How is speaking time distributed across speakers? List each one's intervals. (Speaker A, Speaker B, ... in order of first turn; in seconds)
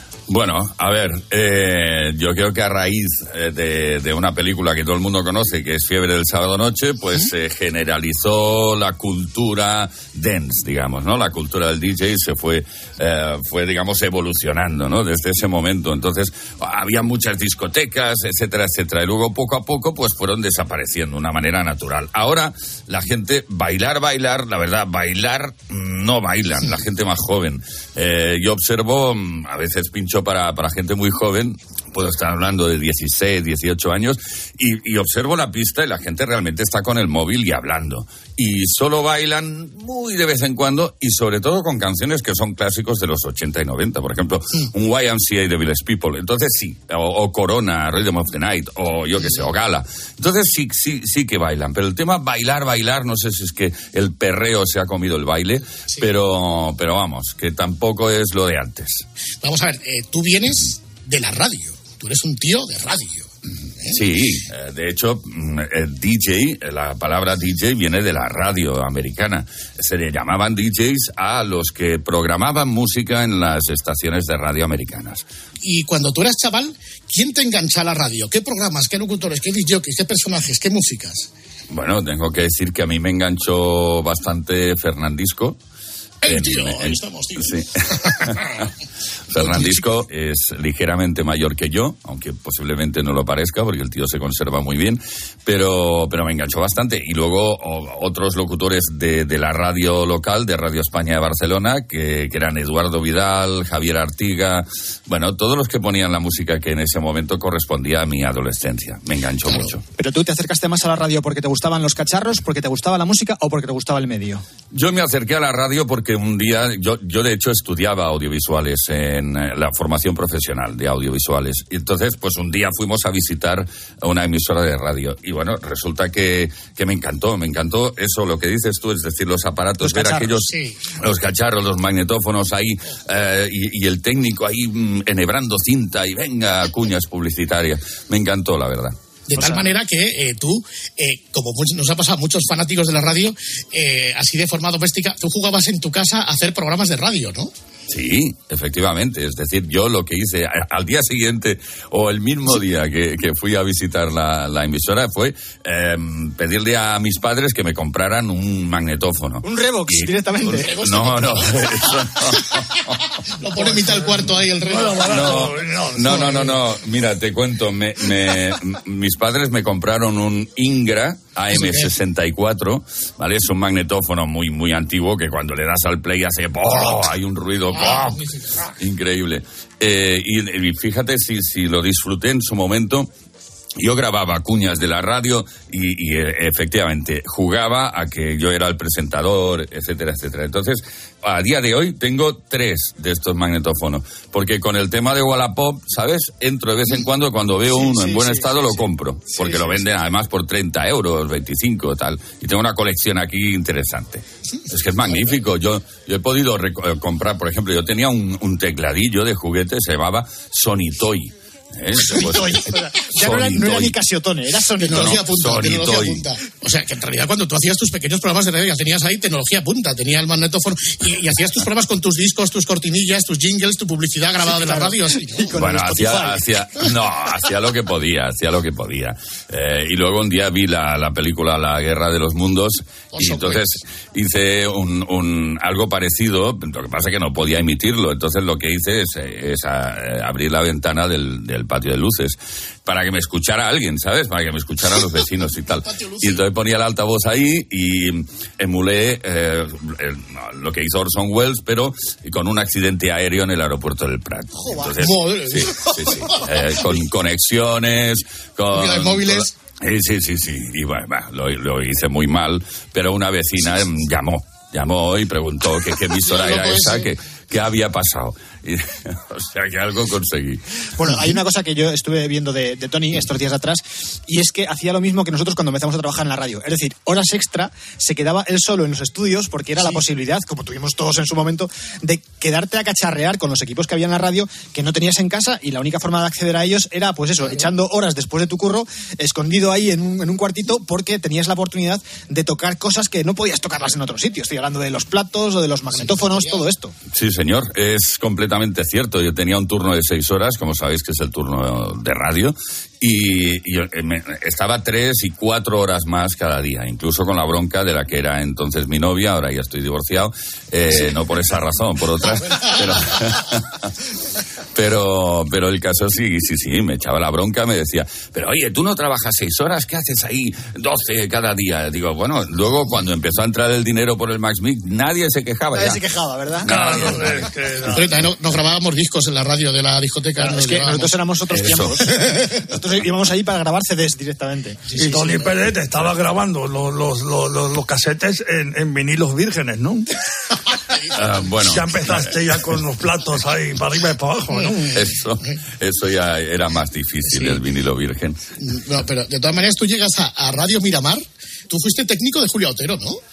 Speaker A: 0.3-59.0, 63.9-75.2, 81.7-85.6, 86.3-88.7, 89.3-109.8, 114.7-138.9, 147.9-162.8, 165.0-178.2, 178.8-183.1, 183.8-214.0, 214.9-216.2, 225.6-270.6, 297.1-313.8, 314.8-326.0, 326.6-327.4, 331.5-332.0, 341.1-342.4, 344.9-348.4
Speaker B: 59.4-63.3, 75.6-81.3, 86.2-88.6, 89.4-89.8, 130.5-130.8, 139.3-147.5, 160.5-162.8, 163.4-165.5, 171.5-171.9, 177.7-178.7, 199.4-199.9, 214.8-225.6, 233.1-233.8, 245.8-246.4, 254.6-256.5, 258.7-259.5, 266.2-267.1, 295.9-296.6, 327.9-331.2, 344.5-345.6, 347.2-347.6, 348.6-353.2
Speaker C: 110.0-114.4, 129.8-130.4, 139.4-139.6, 159.4-160.7, 197.8-198.7, 212.1-215.2, 224.4-226.4, 271.0-296.9, 325.8-326.7, 330.4-335.7
Speaker D: 164.6-166.4, 326.7-328.2, 334.9-340.1, 341.6-344.7